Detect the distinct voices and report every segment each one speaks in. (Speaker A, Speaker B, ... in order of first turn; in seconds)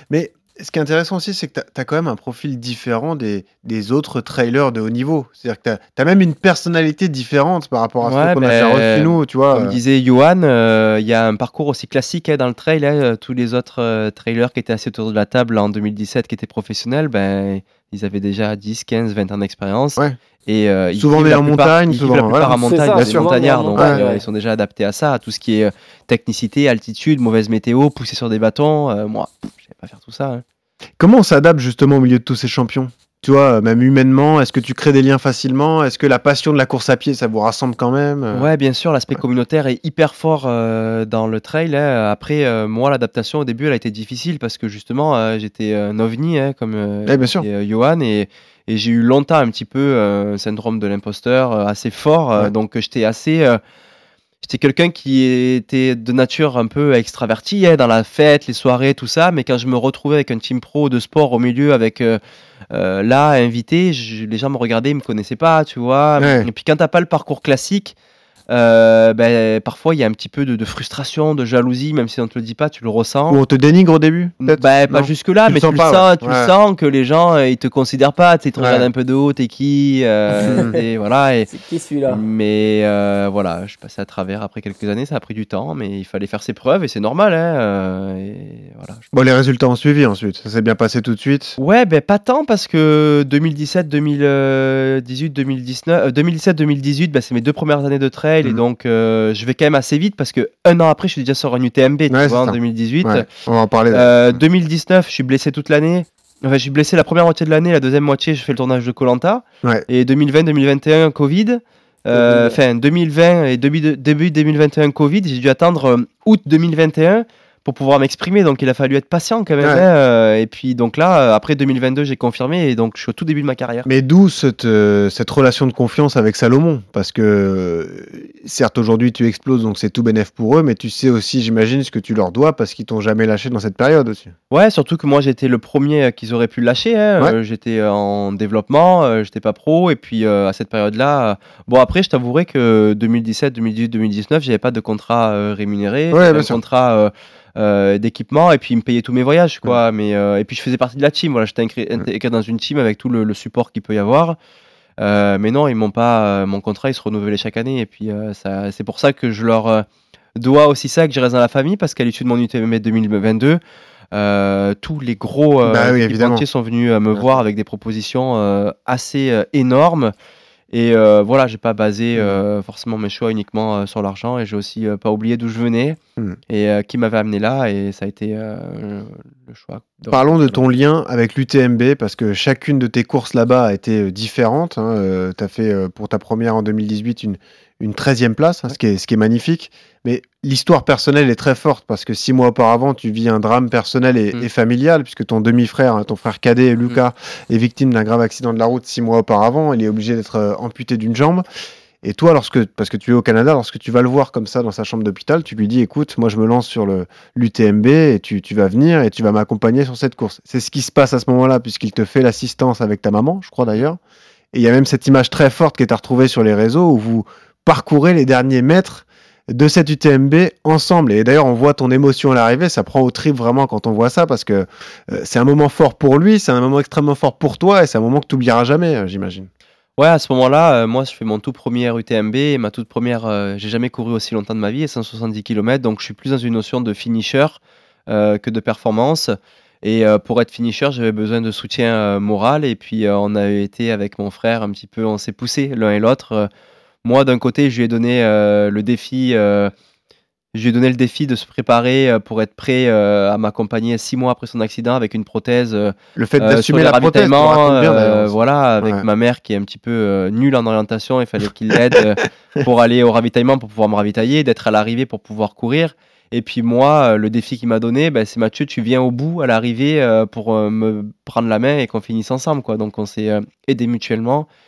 Speaker A: 0.1-9.8, 20.9-24.0, 31.0-38.5, 47.0-47.5, 66.2-66.5, 73.3-76.5, 78.6-78.8, 89.1-91.5, 102.1-104.4, 112.1-112.6, 119.6-119.8, 123.8-134.3, 146.1-146.6, 165.6-166.4, 180.1-201.4, 202.0-214.0, 214.5-229.5, 256.2-258.3
Speaker B: 8.0-30.4, 38.3-53.6, 54.4-62.2, 62.7-67.9, 68.5-73.4, 74.4-81.5, 82.1-89.0, 91.6-103.2, 103.9-123.9, 134.5-154.4, 155.0-159.8, 160.4-163.6, 164.1-170.1, 170.7-176.0, 176.5-180.6, 230.0-246.5, 247.0-249.7, 250.5-274.5
Speaker C: 22.5-24.2, 80.5-80.8, 81.5-82.2